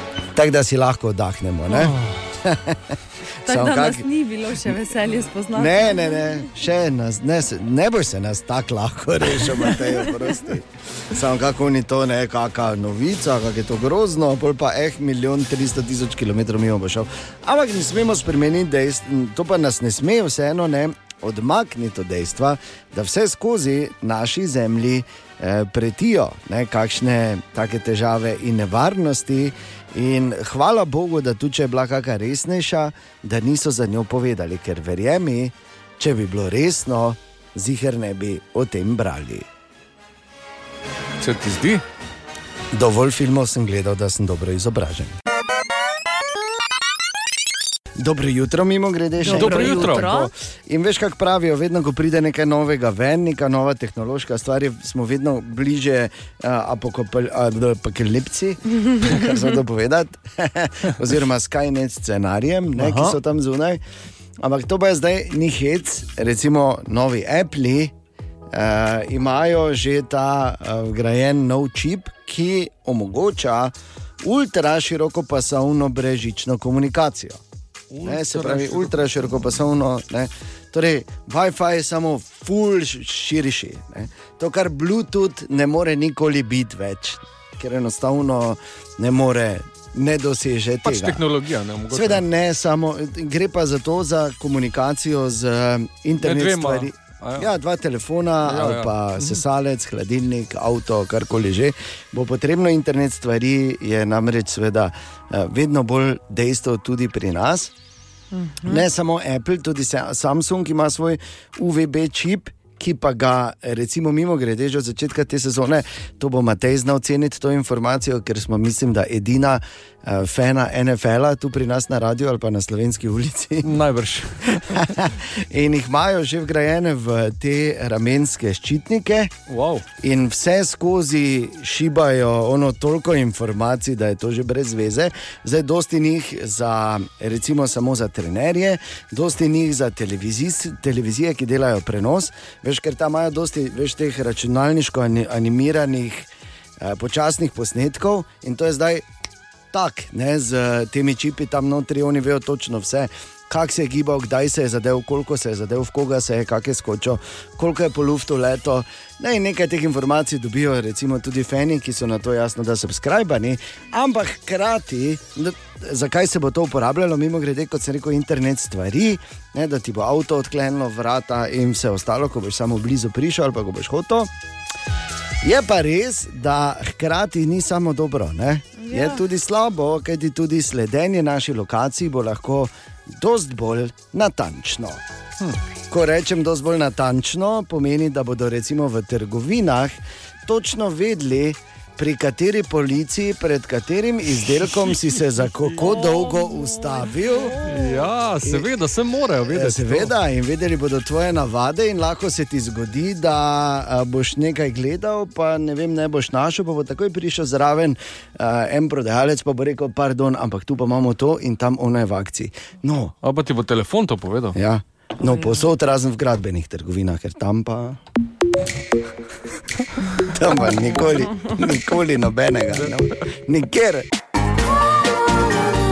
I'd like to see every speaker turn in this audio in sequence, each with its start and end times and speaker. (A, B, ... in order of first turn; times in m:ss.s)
0:00.4-0:04.0 A
0:03.5-0:06.1 B
0:05.5-0:39.5 A
0:41.2-0:41.8 C
0:42.7-0:45.1 A
0:48.0-1:03.8 A
0:49.2-0:50.3 B
0:49.3-0:50.1 C
1:02.8-1:03.2 C
1:04.4-1:07.9 A
1:08.5-1:17.4 A
1:17.9-1:19.3 C
1:18.0-1:31.2 A
1:30.8-1:32.2 C
1:31.9-1:47.7 A
1:36.2-1:37.5 C
1:38.4-1:39.4 C
1:48.3-1:48.8 B
1:48.6-2:03.8 A
2:03.6-2:04.9 C
2:04.5-2:09.4 A
2:09.5-2:09.8 C
2:10.0-2:29.0 A
2:29.7-2:54.3 A
2:55.4-3:05.0 A
2:58.8-2:59.2 B
3:05.9-3:17.7 A
3:15.8-3:18.0 B
3:17.6-3:20.1 C
3:19.5-3:33.2 A
3:33.2-3:34.6 C
3:34.5-3:38.0 A
3:40.2-3:44.1 A